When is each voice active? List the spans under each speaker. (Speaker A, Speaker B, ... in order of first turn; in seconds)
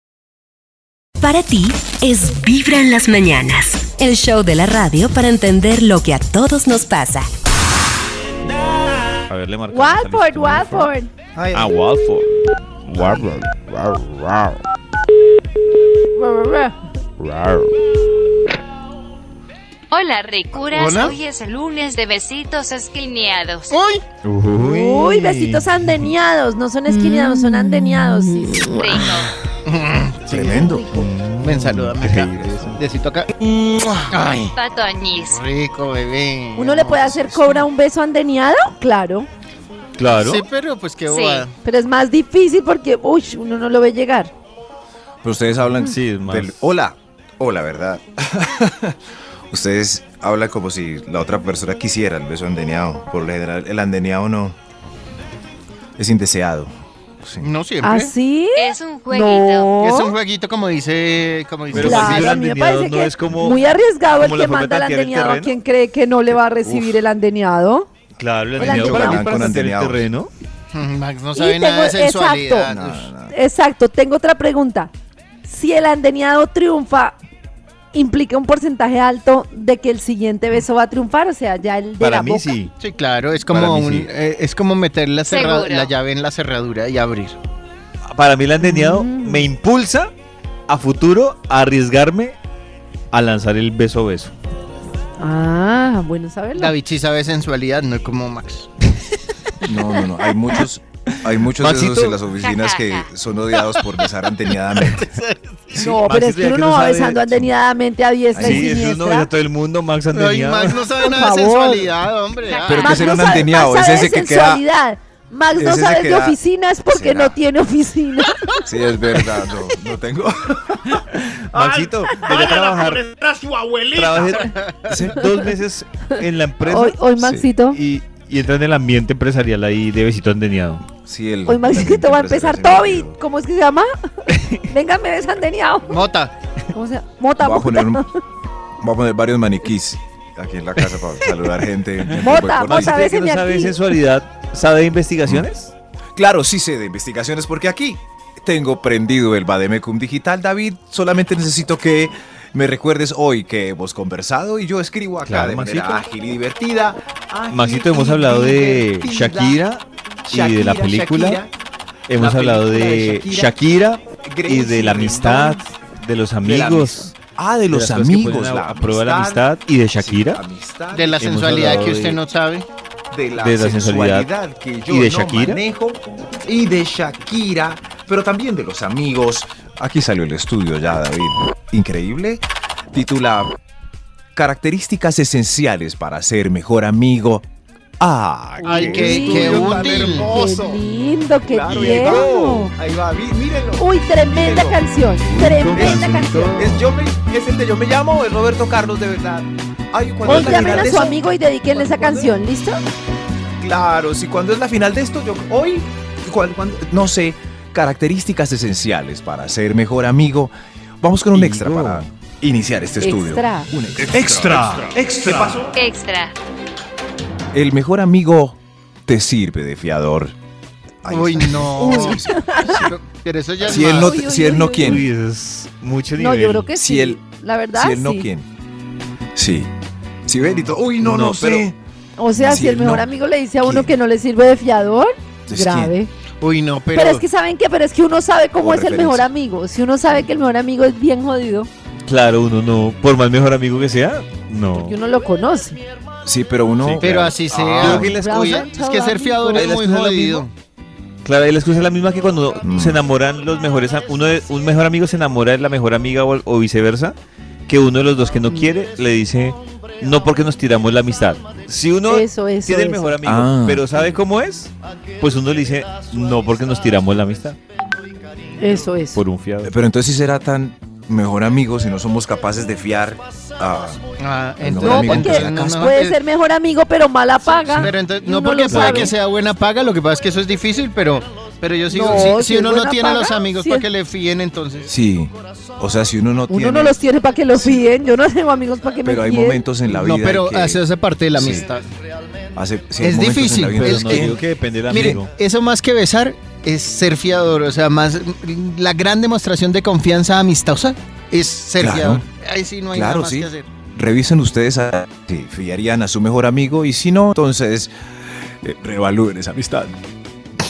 Speaker A: 1.2-7.3
Speaker B: 9.3-10.9, 11.5-14.6, 17.2-17.7, 24.2-25.8, 30.9-32.8, 40.0-40.5, 45.8-46.6, 61.7-65.5, 68.2-70.3, 82.0-82.7, 83.5-84.1, 88.1-90.1, 90.7-92.4, 93.1-94.3, 101.6-102.2, 105.8-107.5, 108.4-110.9, 121.2-123.0, 123.9-127.0, 127.7-130.9, 134.3-134.6, 142.1-145.7, 155.2-156.0, 157.5-161.4, 162.1-167.1, 167.7-170.4, 171.2-172.2, 173.4-174.3, 174.9-175.6, 188.7-189.0, 191.7-192.3, 195.3-196.9, 200.3-200.8, 211.3-212.1, 224.5-226.7, 231.0-231.7, 242.1-245.0, 246.8-248.6, 249.5-250.4, 251.2-257.1, 257.7-267.6, 269.1-269.7, 278.7-279.1, 293.7-295.3
Speaker C: 9.7-11.1, 16.2-16.8, 24.6-28.8, 36.5-39.3, 41.6-44.3, 57.8-60.1, 61.7-67.9, 68.6-69.3, 71.4-72.7, 73.3-74.9, 75.5-77.2, 77.9-82.5, 88.6-89.5, 95.2-96.7, 105.7-109.3, 111.0-111.9, 112.8-118.6, 126.7-127.8, 131.5-133.9, 134.7-136.0, 136.7-138.1, 142.2-143.8, 188.6-192.7, 193.8-196.7, 200.2-202.8, 213.0-213.7, 221.8-222.9, 223.8-225.0, 226.2-228.3, 232.2-236.1, 236.9-241.7, 244.8-245.8, 248.2-249.7, 262.1-263.1, 268.6-269.2, 274.8-279.1, 281.9-283.9, 286.5-289.6
Speaker D: 11.4-11.6, 20.7-21.1, 23.7-24.0, 29.6-30.8, 31.4-34.5, 35.3-37.3, 40.2-41.5, 57.4-58.1, 59.8-62.3, 70.7-73.1, 82.8-87.4, 96.6-98.7, 104.8-105.9, 110.1-113.0, 124.3-124.8, 135.9-136.3, 170.9-172.7, 188.6-190.3, 221.1-224.2, 236.4-237.2, 247.0-250.5, 274.2-276.2, 277.5-284.9, 289.9-291.9, 293.0-303.7
Speaker E: 19.9-23.8, 28.7-29.3, 34.5-35.4, 41.1-41.5, 58.5-59.7, 85.3-85.9, 102.3-103.1, 112.5-113.1, 215.7-216.3
Speaker F: 30.3-31.1, 45.2-49.0, 49.5-54.5, 56.0-57.5, 66.6-66.9, 68.6-70.0, 72.7-73.3, 99.6-105.1, 108.3-108.8, 112.7-114.6, 115.5-116.4, 116.9-117.4, 118.7-125.2, 127.2-127.5, 131.1-133.2, 137.4-138.1, 138.8-143.1, 146.2-159.6, 160.3-161.5, 162.1-163.6, 164.2-165.7, 166.4-171.7, 173.1-183.5, 184.3-187.5, 188.0-190.8, 191.5-194.8, 195.8-202.4, 203.6-215.8, 217.5-220.3, 221.0-222.9, 223.6-225.1, 226.8-227.2, 227.7-228.5, 229.3-229.7, 230.3-231.8, 232.3-233.1, 233.6-233.9, 235.5-235.9, 238.6-239.3, 246.2-248.2, 252.6-253.0, 263.2-264.2, 269.6-274.1, 274.6-275.9, 284.9-287.0, 287.6-287.8, 289.0-290.8, 291.4-291.7, 292.6-295.2, 301.8-302.2, 302.9-307.9, 308.6-309.9